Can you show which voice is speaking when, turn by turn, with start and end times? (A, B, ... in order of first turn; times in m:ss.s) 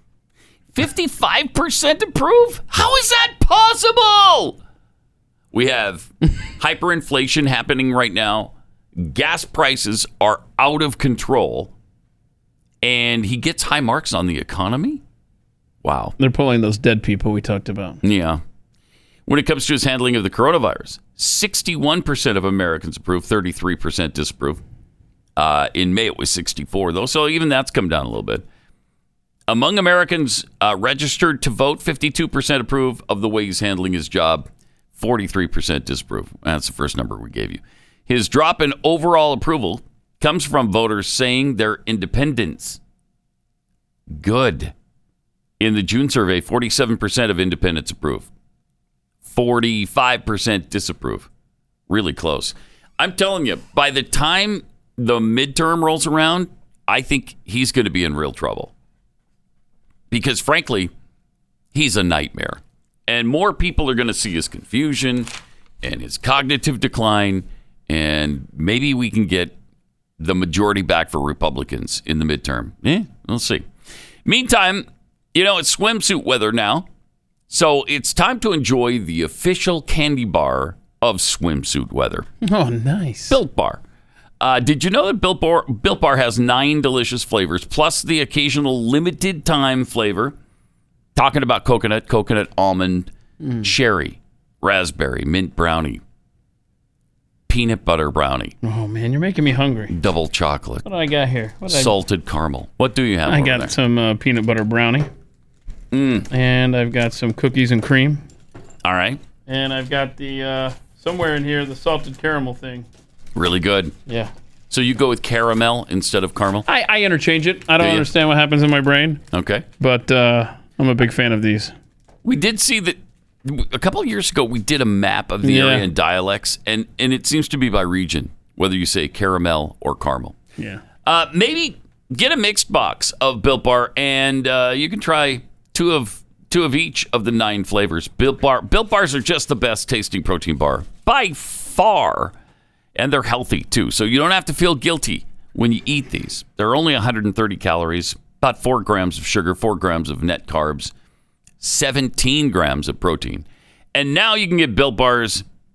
0:00.7-0:04.6 A
0:05.5-0:11.7 A
0:12.8-0:15.0 A
0:15.8-0:16.1 A
0:16.2-0:18.0 B
0:18.0-0:18.4 A
0:19.2-0:24.6 A
0:25.4-0:28.4 A
0:29.5-0:42.8 A
0:44.1-0:44.7 A
0:45.6-0:48.3 A
0:49.3-0:51.3 A
0:51.9-0:58.7 A
1:00.1-1:00.9 A
1:01.7-1:05.3 A
1:05.8-1:09.5 A
1:10.2-1:13.7 A
1:14.2-1:16.8 A
1:17.5-1:22.3 A
1:22.4-1:23.4 B
1:23.3-1:23.8 A
1:24.4-1:30.3 A
1:31.1-1:33.1 A
1:33.4-1:33.7 B
1:33.6-1:36.0 A
1:37.5-1:38.5 A
1:38.6-1:39.9 B
1:39.9-1:40.8 A
1:40.8-1:41.9 B
1:41.7-1:43.7 A
1:43.3-1:45.1 B
1:45.9-1:46.3 A
1:46.3-1:48.2 B
1:48.8-1:49.2 A
1:49.5-1:52.9 B
1:53.3-1:53.9 A
1:54.7-1:56.6 A
1:56.6-1:59.2 B
1:57.8-1:58.1 A
1:59.3-1:59.6 A
1:59.8-2:01.7 B
2:02.2-2:10.4 A
2:05.4-2:05.8 B
2:11.0-2:22.3 A
2:23.0-2:30.9 A
2:31.6-2:35.4 A